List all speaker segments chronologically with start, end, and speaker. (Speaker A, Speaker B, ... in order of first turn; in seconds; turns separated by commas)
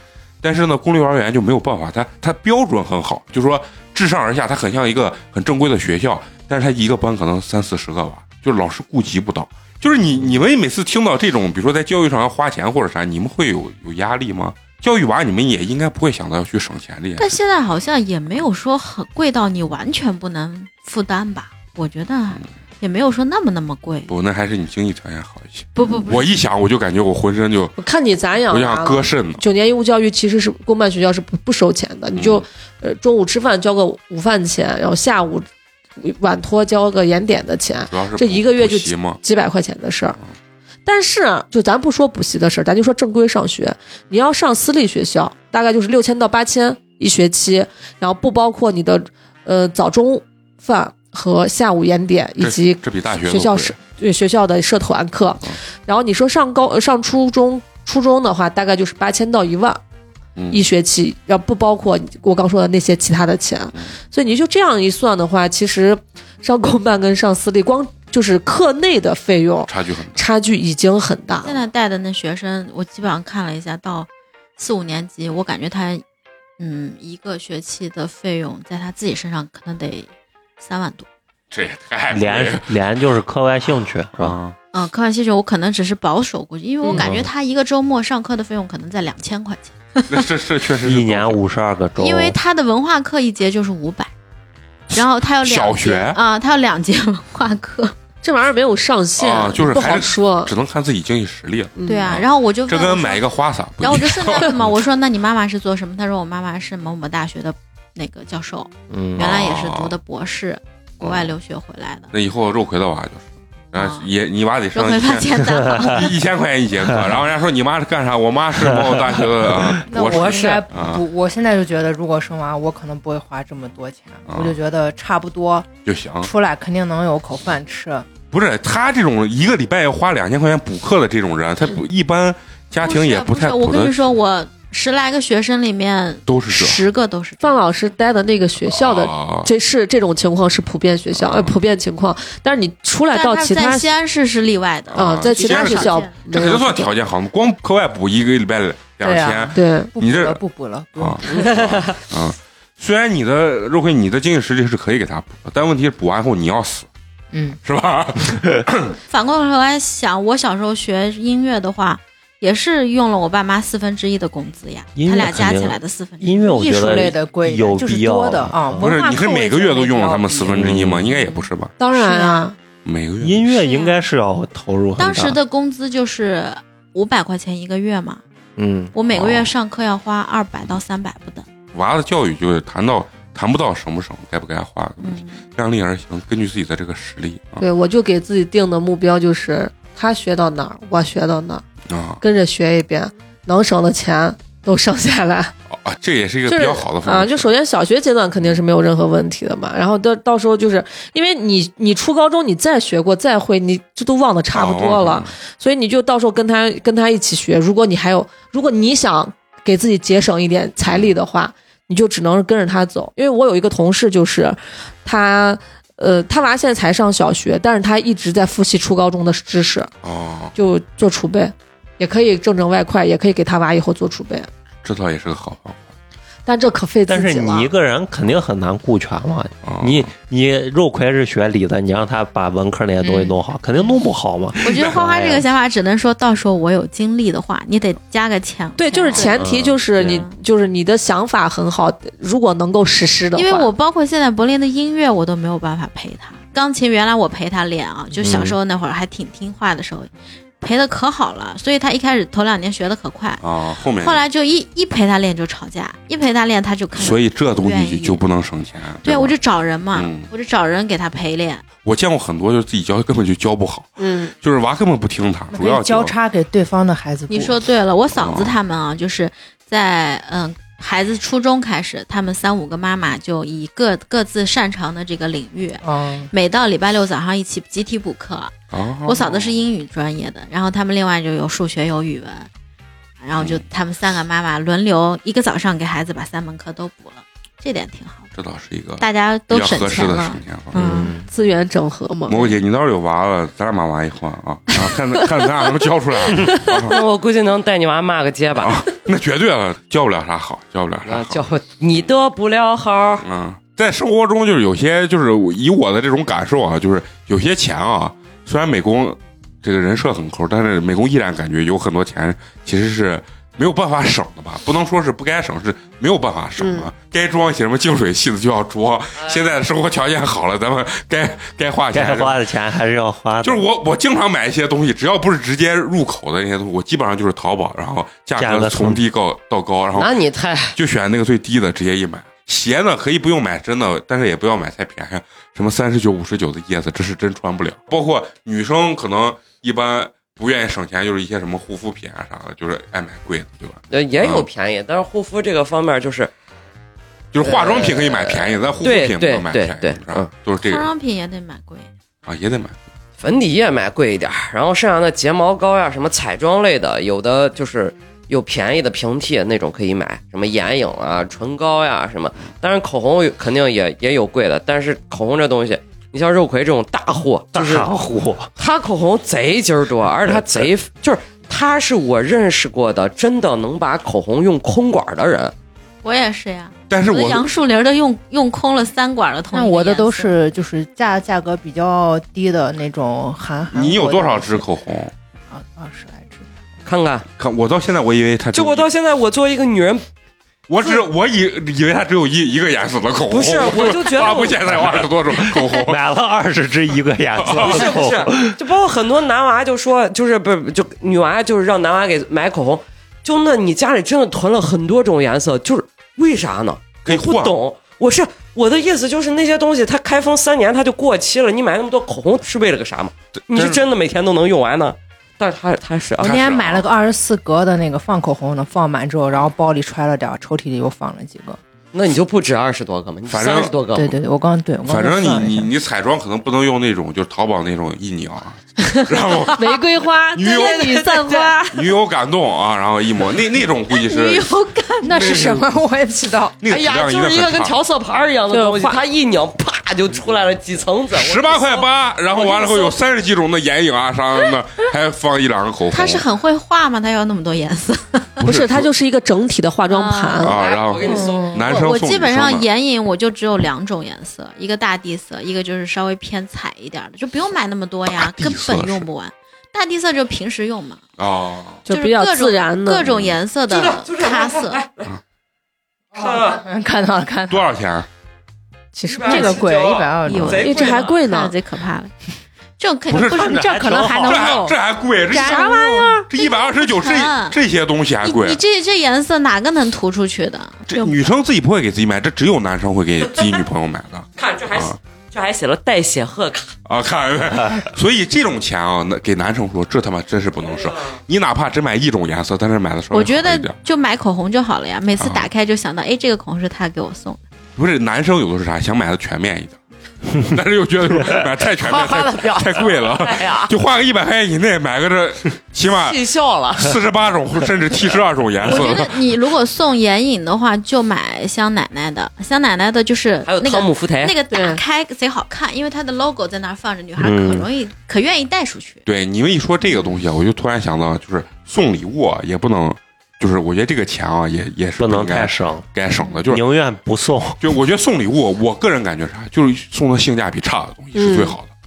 Speaker A: 0.4-17.4, Speaker B: 17.2-24.1, Speaker A: 24.1-27.8, Speaker B: 25.7-26.3, Speaker C: 27.8-35.5, Speaker A: 28.4-29.4, Speaker A: 32.1-32.4, Speaker C: 36.0-40.2, Speaker A: 37.9-39.2, Speaker C: 40.9-59.8, Speaker A: 52.4-53.8, Speaker A: 60.4-60.6, Speaker C: 60.5-71.6, Speaker A: 69.7-70.2, Speaker B: 71.4-76.0, Speaker B: 76.6-80.1, Speaker B: 80.6-81.0, Speaker A: 81.5-82.7, Speaker D: 82.1-84.4, Speaker A: 84.2-84.5, Speaker B: 84.7-90.0, Speaker D: 86.9-87.3, Speaker A: 90.1-91.4, Speaker D: 90.8-92.4, Speaker B: 92.0-94.1, Speaker B: 94.9-97.9, Speaker A: 94.9-96.2, Speaker C: 98.2-100.5, Speaker A: 99.2-104.8, Speaker C: 101.8-102.2, Speaker B: 101.8-103.2, Speaker B: 103.8-112.1, Speaker D: 108.9-109.2, Speaker A: 109.2-110.0, Speaker A: 111.0-111.3, Speaker A: 112.1-121.0, Speaker B: 113.7-114.1, Speaker B: 114.7-116.1, Speaker D: 118.6-119.7, Speaker E: 119.8-125.7, Speaker F: 120.1-120.6, Speaker A: 124.3-124.6, Speaker A: 125.8-126.3, Speaker E: 126.2-128.1, Speaker A: 128.3-134.1, Speaker B: 132.8-137.7, Speaker A: 136.3-136.8, Speaker C: 137.4-143.9, Speaker A: 138.6-139.5, Speaker A: 141.1-141.6, Speaker B: 143.1-146.2, Speaker A: 144.9-150.4, Speaker C: 144.9-146.9, Speaker E: 149.0-151.5, Speaker C: 149.5-149.9, Speaker A: 150.9-156.9, Speaker F: 151.3-152.0, Speaker E: 157.3-157.6, Speaker A: 157.6-159.0, Speaker B: 159.1-166.4, Speaker D: 164.9-168.9, Speaker E: 166.4-170.6, Speaker A: 168.8-171.8, Speaker D: 170.5-171.1, Speaker C: 171.8-172.6, Speaker B: 171.9-172.4, Speaker A: 172.8-173.5, Speaker D: 173.2-175.4, Speaker B: 173.5-174.0, Speaker B: 175.0-178.2, Speaker D: 178.6-178.9, Speaker B: 178.9-181.4, Speaker A: 179.1-179.5, Speaker A: 181.7-187.7, Speaker B: 185.0-185.4, Speaker C: 187.6-191.6, Speaker A: 191.9-192.2, Speaker C: 192.2-195.5, Speaker A: 195.7-197.5, Speaker C: 196.4-219.9, Speaker A: 204.5-205.3, Speaker A: 210.9-211.1, Speaker A: 220.0-220.6, Speaker C: 220.5-224.5, Speaker A: 224.8-225.9, Speaker C: 226.4-227.7, Speaker D: 227.1-235.4, Speaker A: 229.6-230.1, Speaker B: 233.0-233.3, Speaker B: 234.6-240.3, Speaker C: 238.8-243.7, Speaker B: 243.3-253.4, Speaker D: 248.2-248.6, Speaker A: 253.4-254.2, Speaker B: 254.0-258.2, Speaker A: 256.9-259.4, Speaker B: 259.0-261.6, Speaker A: 259.9-260.3, Speaker A: 261.8-266.1, Speaker C: 264.0-264.3, Speaker E: 265.5-267.6, Speaker B: 267.3-278.5, Speaker A: 268.1-268.5, Speaker E: 275.8-276.3, Speaker A: 278.7-279.5, Speaker B: 279.0-282.5, Speaker B: 283.2-288.3, Speaker A: 283.4-283.6, Speaker A: 288.3-290.9, Speaker B: 289.0-290.4, Speaker D: 290.7-291.2, Speaker C: 290.8-292.5, Speaker A: 292.3-297.0, Speaker F: 296.9-298.8, Speaker A: 298.6-302.1, Speaker F: 301.1-303.2, Speaker A: 303.2-322.4, Speaker C: 316.6-316.9, Speaker D: 321.9-323.6, Speaker A: 323.4-330.2, Speaker D: 328.4-329.0, Speaker F: 329.9-330.8, Speaker A: 330.7-344.5, Speaker F: 343.9-346.3, Speaker A: 347.3-350.9, Speaker F: 347.4-350.3, Speaker B: 350.6-351.9, Speaker A: 352.2-352.8, Speaker F: 353.2-367.9, Speaker D: 367.5-368.5, Speaker F: 368.6-375.5, Speaker B: 376.0-380.3, Speaker A: 376.9-377.5, Speaker E: 379.5-384.6, Speaker A: 383.7-385.1, Speaker E: 385.5-386.5, Speaker F: 386.9-387.3, Speaker A: 387.4-388.9, Speaker F: 388.5-390.0, Speaker A: 390.7-396.0, Speaker F: 390.8-391.1, Speaker F: 393.3-395.0, Speaker D: 395.4-398.6, Speaker A: 397.4-397.9, Speaker F: 397.4-416.3, Speaker A: 407.1-407.5, Speaker A: 413.4-413.8, Speaker A: 416.2-416.9, Speaker E: 416.2-421.6, Speaker F: 421.9-424.1, Speaker A: 423.3-423.8, Speaker E: 423.9-425.7, Speaker A: 424.8-429.8, Speaker C: 429.5-431.8, Speaker A: 430.3-430.9, Speaker E: 430.4-431.6, Speaker A: 431.7-434.5, Speaker B: 433.9-435.2, Speaker E: 435.0-436.6, Speaker A: 435.1-435.7, Speaker A: 436.6-437.7, Speaker F: 436.6-441.9, Speaker C: 438.5-439.0, Speaker A: 441.1-446.2, Speaker B: 442.4-442.7, Speaker B: 445.9-448.4, Speaker A: 448.4-448.9, Speaker C: 448.4-450.6, Speaker B: 449.9-461.0, Speaker A: 450.4-452.7, Speaker F: 450.5-451.6, Speaker E: 451.1-451.7, Speaker A: 458.1-459.1, Speaker A: 461.2-461.9, Speaker C: 461.8-463.1, Speaker B: 461.9-464.8, Speaker A: 463.1-463.4, Speaker F: 463.7-465.1, Speaker F: 466.1-466.6, Speaker E: 466.1-467.7, Speaker A: 467.5-468.1, Speaker E: 468.9-470.7, Speaker F: 469.0-471.2, Speaker B: 469.3-469.6, Speaker B: 470.2-472.1, Speaker C: 470.6-471.5, Speaker B: 472.8-474.6, Speaker A: 473.1-473.5, Speaker D: 473.1-474.5, Speaker E: 473.5-474.8, Speaker A: 474.3-478.6, Speaker E: 475.3-476.3, Speaker B: 475.3-477.6, Speaker B: 478.2-481.2, Speaker A: 480.9-484.9, Speaker F: 483.2-483.6, Speaker F: 484.4-486.7, Speaker A: 486.9-493.7, Speaker F: 490.6-491.2, Speaker B: 493.1-497.4, Speaker A: 495.2-495.5, Speaker A: 497.8-499.8, Speaker A: 500.3-506.2, Speaker F: 501.8-503.7, Speaker F: 505.9-507.0, Speaker A: 506.8-509.2, Speaker B: 508.6-519.0, Speaker F: 513.5-514.3, Speaker C: 514.5-514.8, Speaker D: 517.2-517.7, Speaker A: 519.0-526.6, Speaker D: 525.0-525.9, Speaker D: 526.5-527.8, Speaker A: 527.6-531.7, Speaker C: 531.1-531.6